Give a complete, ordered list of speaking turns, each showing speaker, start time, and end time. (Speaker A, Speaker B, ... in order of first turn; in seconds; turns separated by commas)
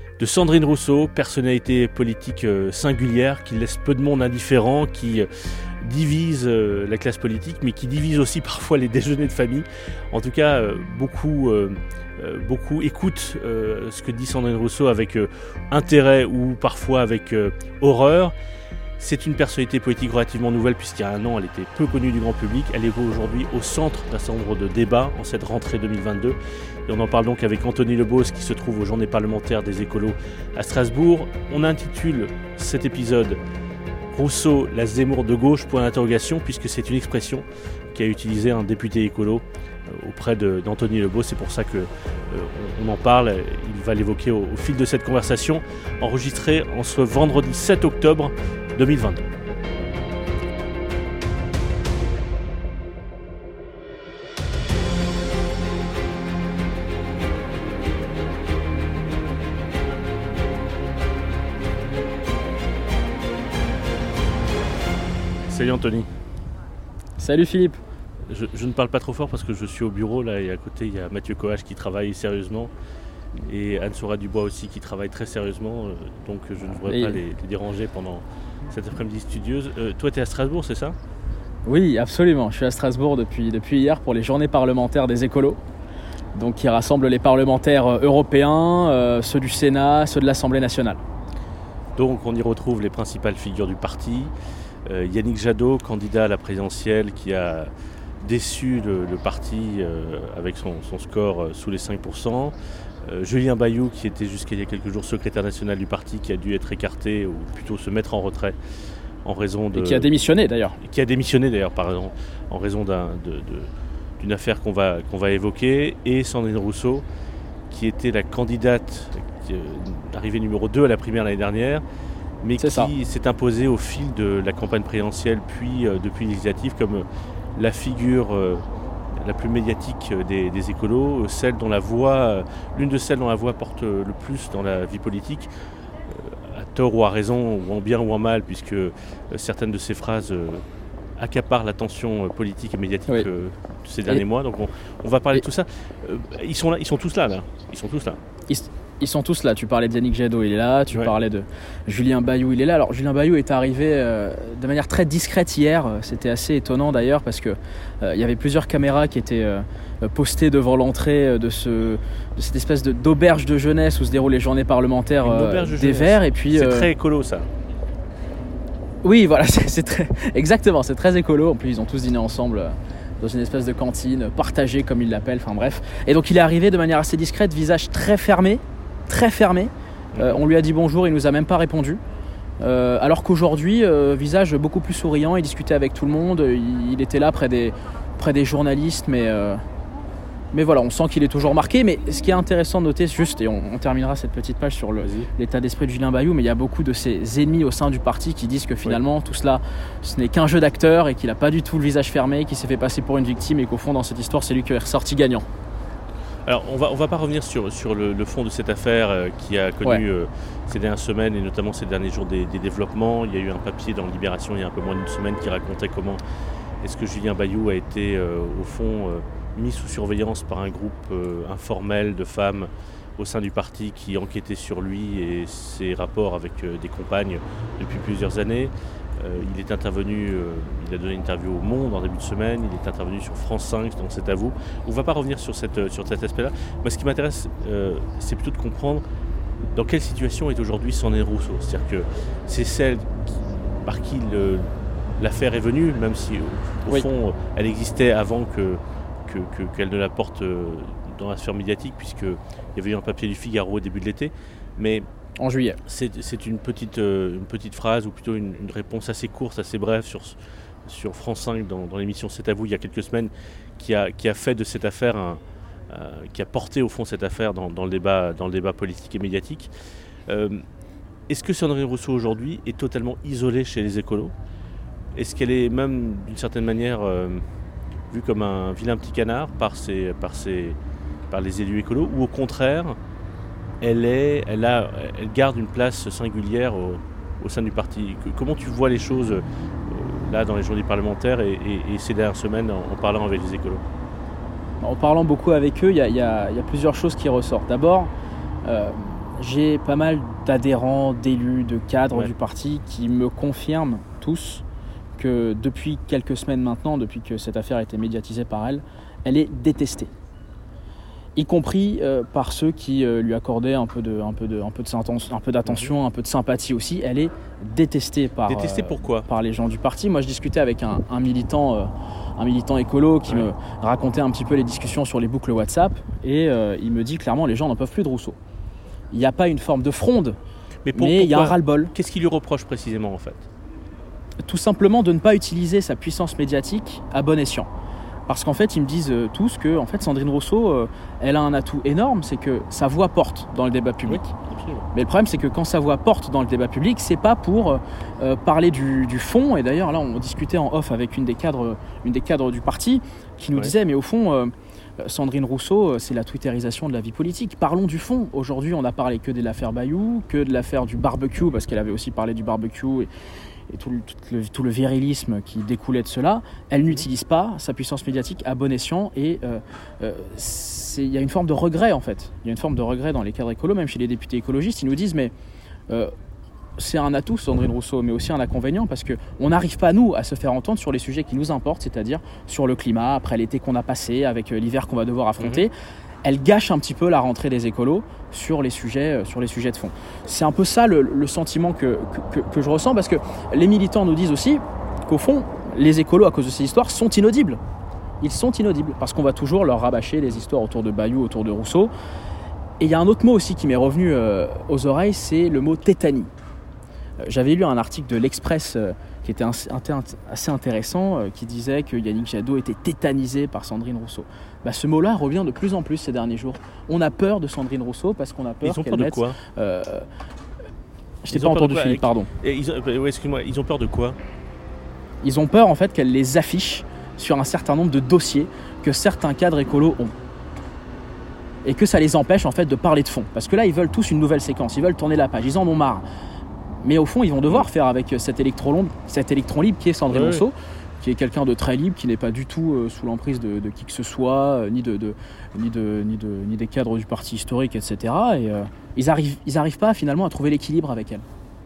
Speaker A: 0.2-18.3, Speaker A: 19.0-33.4, Speaker A: 34.1-49.3, Speaker A: 65.5-66.1, Speaker B: 67.2-67.8, Speaker A: 68.3-72.7, Speaker A: 73.4-81.0, Speaker B: 76.9-77.2, Speaker B: 81.7-85.6, Speaker B: 86.3-91.0, Speaker A: 92.0-94.3, Speaker A: 94.8-108.5, Speaker A: 109.2-110.1, Speaker B: 109.7-110.8, Speaker A: 110.8-117.0, Speaker A: 117.7-121.8, Speaker A: 122.4-127.0, Speaker B: 122.6-122.9, Speaker A: 127.5-128.6, Speaker A: 129.2-135.5, Speaker A: 136.1-140.6, Speaker A: 141.2-148.2, Speaker B: 148.5-166.9, Speaker A: 165.2-167.5, Speaker B: 169.0-182.0, Speaker A: 180.1-180.4, Speaker B: 182.6-189.6, Speaker B: 190.5-205.4, Speaker A: 195.0-195.3, Speaker A: 206.5-216.2, Speaker A: 216.8-239.0, Speaker A: 239.7-243.3, Speaker A: 243.8-244.7, Speaker A: 245.2-255.1, Speaker B: 255.4-255.8, Speaker A: 255.8-269.7, Speaker A: 270.3-270.6, Speaker A: 271.3-274.3, Speaker A: 275.1-277.4, Speaker A: 278.1-280.8, Speaker A: 281.3-283.0, Speaker A: 283.8-293.8, Speaker B: 294.8-298.1, Speaker B: 298.6-304.6, Speaker B: 305.2-310.1, Speaker B: 311.4-328.4, Speaker A: 318.5-319.3, Speaker B: 329.1-330.4, Speaker A: 330.8-333.5, Speaker B: 330.9-331.9, Speaker B: 334.4-337.7, Speaker B: 338.3-344.3, Speaker A: 344.1-344.9, Speaker B: 344.9-363.1, Speaker B: 363.7-375.3, Speaker B: 376.8-385.7, Speaker B: 386.2-397.6, Speaker B: 398.2-401.9, Speaker B: 402.8-406.3, Speaker B: 407.2-420.1, Speaker A: 418.6-419.4, Speaker B: 421.2-422.3, Speaker A: 421.3-424.2, Speaker B: 425.2-430.1, Speaker B: 431.6-436.0, Speaker B: 436.8-451.2, Speaker A: 440.1-440.4